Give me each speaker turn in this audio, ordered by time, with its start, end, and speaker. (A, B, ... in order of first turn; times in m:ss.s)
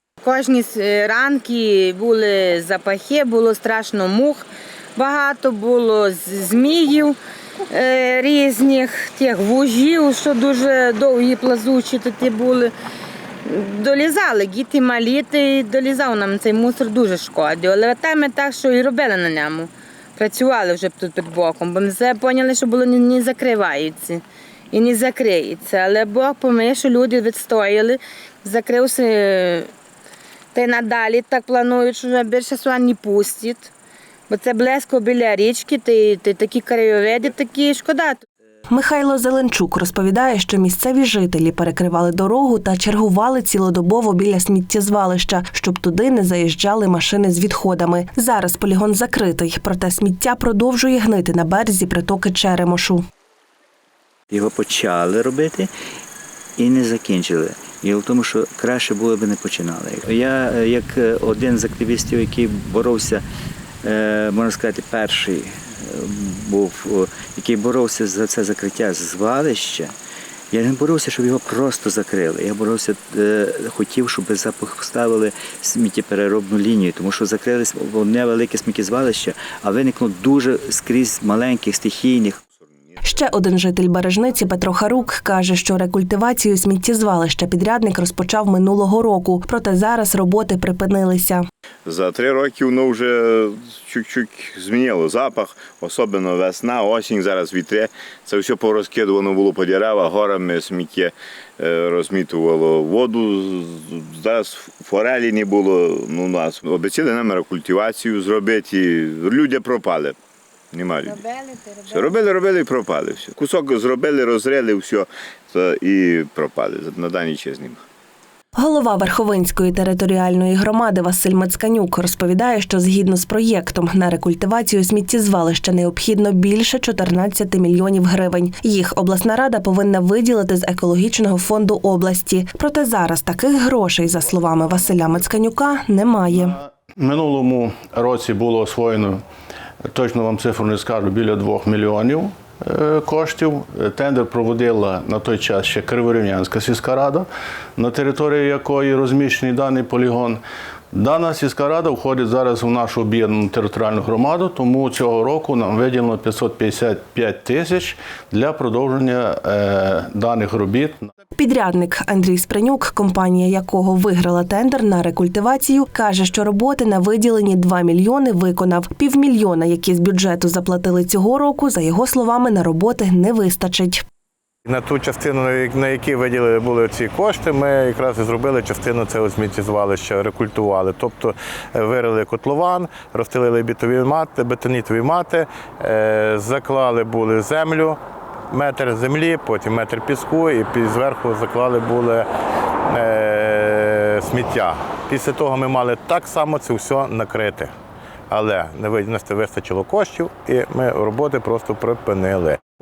0:00.3-0:04.4 A
0:05.0-0:07.2 A
0:07.8-0:12.7 A
0:13.6-0:24.2 A
0:24.7-0:29.6 A
0:30.6-0:33.6 A
0:34.3-0:38.2 A
0:38.7-0:53.0 B
0:54.3-0:55.7 C
0:56.6-1:03.2 C
1:03.8-1:10.0 C
1:10.5-1:22.4 C
1:22.5-1:23.2 D
1:23.0-1:31.4 B
1:31.8-1:50.2 D
1:50.7-1:51.3 D
1:51.8-1:57.8 D
1:58.6-2:16.6 B
2:17.0-2:19.2 E
2:19.9-2:30.4 E
2:30.9-2:41.1 E
2:41.4-2:54.0 B
2:54.7-3:08.0 F
3:08.5-3:12.3 F
3:12.9-3:17.7 F
3:18.3-3:22.6 F